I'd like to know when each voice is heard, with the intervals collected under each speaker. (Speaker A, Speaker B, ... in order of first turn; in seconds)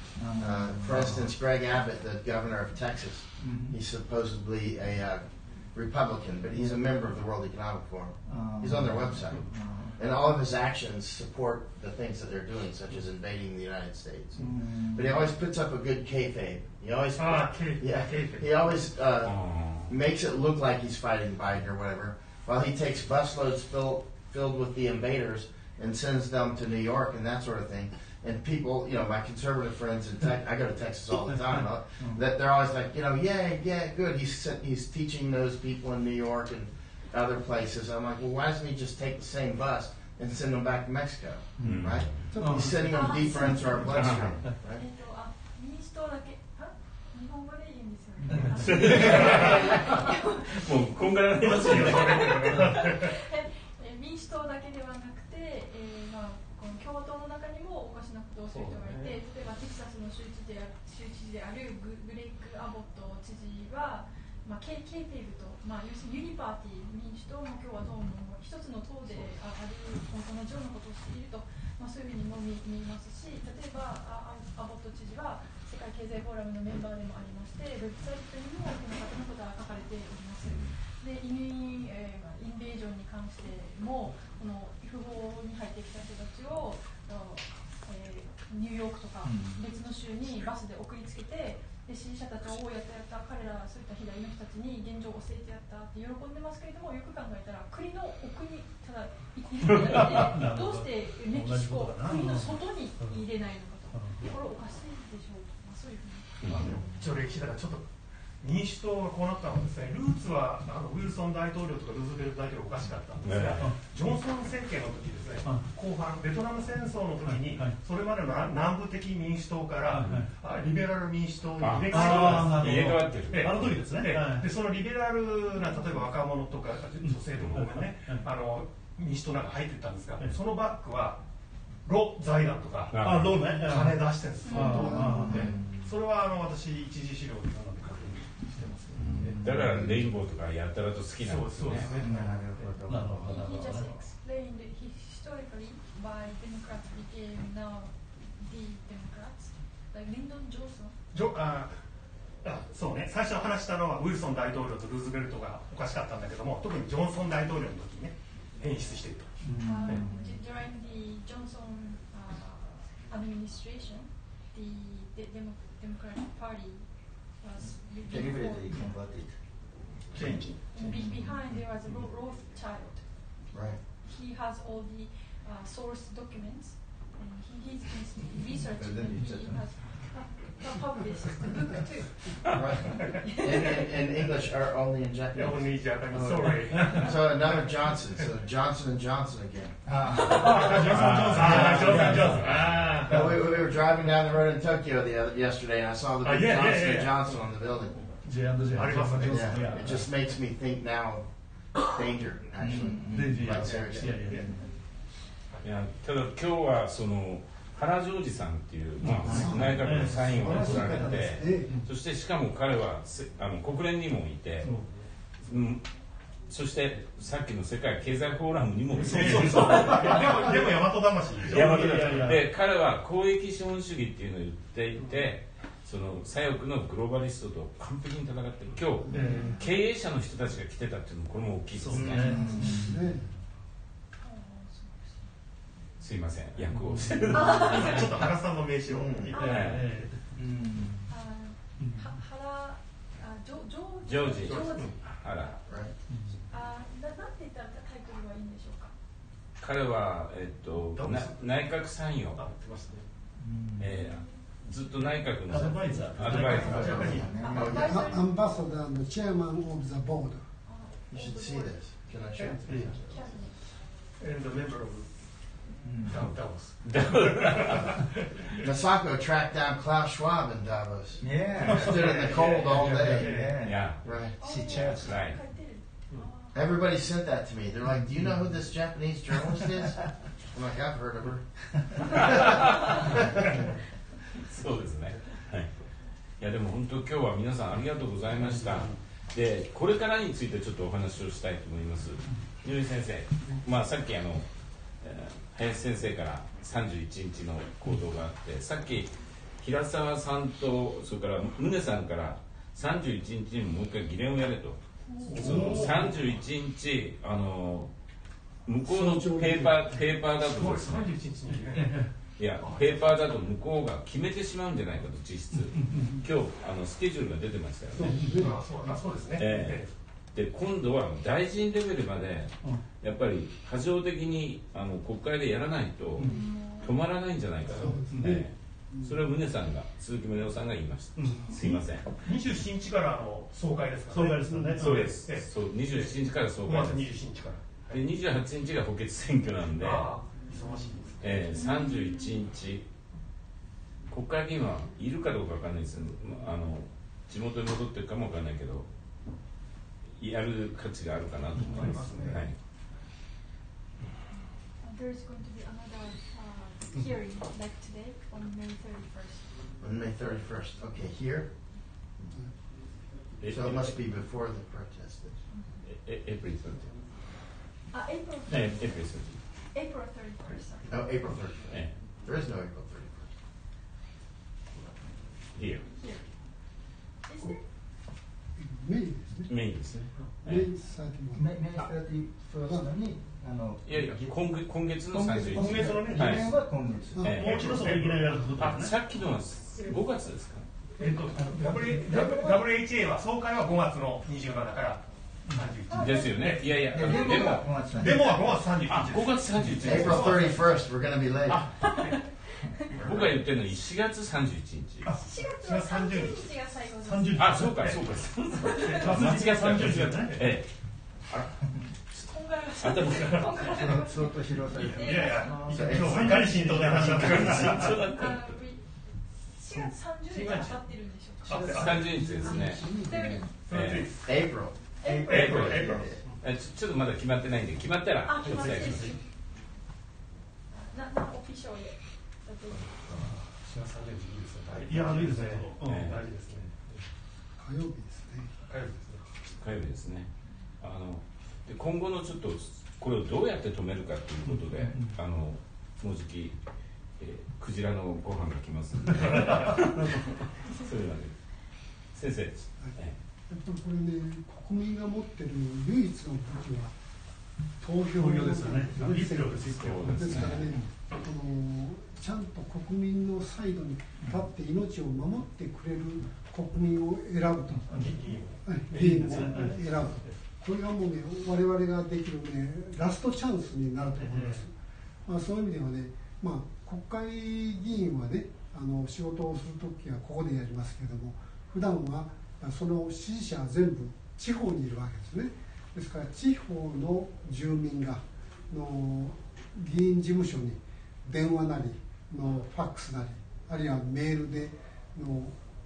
Speaker A: 0.1-1.3, 3.4-3.8, 6.5-6.8, 8.2-10.0, 14.4-15.3, 32.0-32.2, 41.6-42.2, 48.2-48.5, 89.2-89.6, 106.6-107.1, 135.0-135.9, 139.2-140.1, 141.8-143.5, 159.4-160.4, 168.0-171.3, 178.6-179.8, 189.8-190.8, 202.6-203.6, 204.3-204.6, 209.2-209.7, 231.9-233.1, 240.3-241.1, 253.4-254.0, 256.6-258.1, 265.8-266.3, 271.2-275.2, 278.1-278.5, 381.3-384.5, 385.1-387.4, 396.9-398.4, 413.6-416.9, 425.0-426.2, 433.0-433.2
Speaker B: 0.4-44.8, 173.5-173.8, 182.5-189.8, 193.1-198.1, 199.2-204.5, 232.0-232.2, 238.9-239.4, 245.6-245.9, 256.8-258.1, 261.1-263.4, 268.6-273.4, 274.0-274.3, 276.5-282.4, 359.8-361.5, 363.5-365.4, 370.9-373.3, 399.8-401.7, 424.2-424.8
Speaker C: 17.1-18.5, 48.9-49.6, 51.4-53.1, 58.5-59.2, 69.1-69.3, 106.5-107.9, 108.4-131.2, 131.8-139.5, 141.2-142.9, 151.1-151.8, 152.4-160.0, 170.1-171.0, 183.0-183.3, 185.3-188.2, 190.4-193.4, 196.2-197.2, 198.6-200.0, 203.6-204.5, 214.7-215.1, 219.0-222.2, 225.0-225.4, 237.4-239.5, 244.4-245.0, 250.9-251.8, 252.3-253.1, 255.8-257.5, 264.2-265.4, 266.0-268.7, 271.7-274.3, 305.3-306.3, 310.4-313.2, 318.3-319.9, 327.7-327.9, 332.2-338.0, 339.8-341.4, 351.8-352.5, 385.5-386.5, 387.5-388.5, 391.0-400.7, 401.5-402.2, 402.9-403.4, 405.0-406.5, 408.8-410.1, 413.1-413.4, 414.7-418.0, 420.3-420.8, 421.5-422.1, 423.6-424.3, 425.2-426.4, 433.3-437.0, 438.6-439.2, 467.9-470.4
Speaker D: 19.2-19.9, 41.6-42.3, 43.8-44.4, 48.6-52.4, 80.4-80.7, 106.4-106.8, 113.2-113.7, 121.6-123.8, 132.9-133.5, 138.9-141.9, 190.7-193.1, 205.6-214.7, 215.4-215.8, 216.5-220.5, 221.4-232.4, 236.0-238.2, 239.4-239.8, 244.1-245.5, 249.6-252.4, 253.8-257.2, 266.8-267.9, 273.6-274.0, 274.7-275.4, 282.3-282.6, 284.4-285.8, 286.4-307.9, 308.6-311.1, 312.4-318.5, 319.4-332.1, 334.8-337.1, 337.9-340.1, 341.2-342.9, 344.1-348.9, 350.2-352.6, 363.4-363.9, 365.8-366.8, 368.5-369.4, 375.5-375.9, 379.5-380.7, 383.9-386.5, 387.2-390.7, 395.9-398.3, 398.8-400.6, 402.9-405.1, 407.4-410.7, 411.2-412.2, 412.8-413.7, 416.9-418.5, 421.5-422.9, 423.7-424.1, 425.3-429.1, 435.8-436.2, 439.5-440.3, 440.8-446.6, 447.2-451.3, 452.1-453.1, 459.7-460.8
Speaker E: 42.3-44.0, 134.7-135.4, 209.3-211.8, 229.0-229.6, 232.2-233.2, 257.8-260.4, 308.8-310.1, 317.9-319.0, 327.8-329.2, 378.6-379.6, 380.4-381.6, 387.1-387.4, 392.1-392.6, 421.5-423.5, 437.6-438.5, 453.5-456.9, 457.8-474.7, 475.2-495.6
Speaker F: 42.4-42.9, 48.7-49.1, 51.6-52.6, 99.7-103.2, 103.9-104.2, 115.4-115.7, 117.2-117.8, 119.9-120.8, 121.8-124.5, 127.0-128.3, 133.0-135.4, 142.8-143.9, 186.7-187.1, 190.3-193.3, 198.2-200.1, 203.1-204.4, 209.0-210.9, 214.6-214.9, 218.9-220.6, 221.5-222.5, 229.1-229.6, 231.8-232.8, 236.7-237.3, 239.3-240.2, 241.8-242.1, 246.1-246.4, 255.5-257.1, 262.4-263.0, 288.4-288.9, 305.4-306.1, 311.5-312.1, 315.5-316.2, 318.0-318.4, 326.2-326.4, 327.9-328.4, 331.1-331.6, 334.1-335.2, 351.6-351.9, 387.2-388.9, 407.0-407.9, 409.0-410.4, 415.9-418.0, 428.4-429.2, 434.8-436.1, 444.4-445.2, 449.1-450.3, 458.1-460.9, 469.0-469.9, 474.2-474.6
Speaker G: 42.9-44.0, 44.7-50.8, 51.4-106.3, 134.4-135.0, 143.2-150.9, 159.6-168.8, 170.7-173.4, 174.0-183.9, 234.2-235.3, 237.3-238.0, 239.3-239.8, 241.1-245.6, 246.3-248.9, 253.9-254.9, 256.3-258.4, 260.6-263.6, 274.4-276.6, 305.1-305.5, 326.3-326.9, 341.5-342.4, 354.8-359.5, 365.5-365.8, 367.9-369.1, 369.7-370.9, 375.9-376.6, 377.2-377.6, 395.9-396.6, 401.8-402.7, 405.1-407.7, 408.5-409.0, 412.3-415.6, 417.9-423.5, 425.0-425.7, 428.2-429.2, 430.7-433.1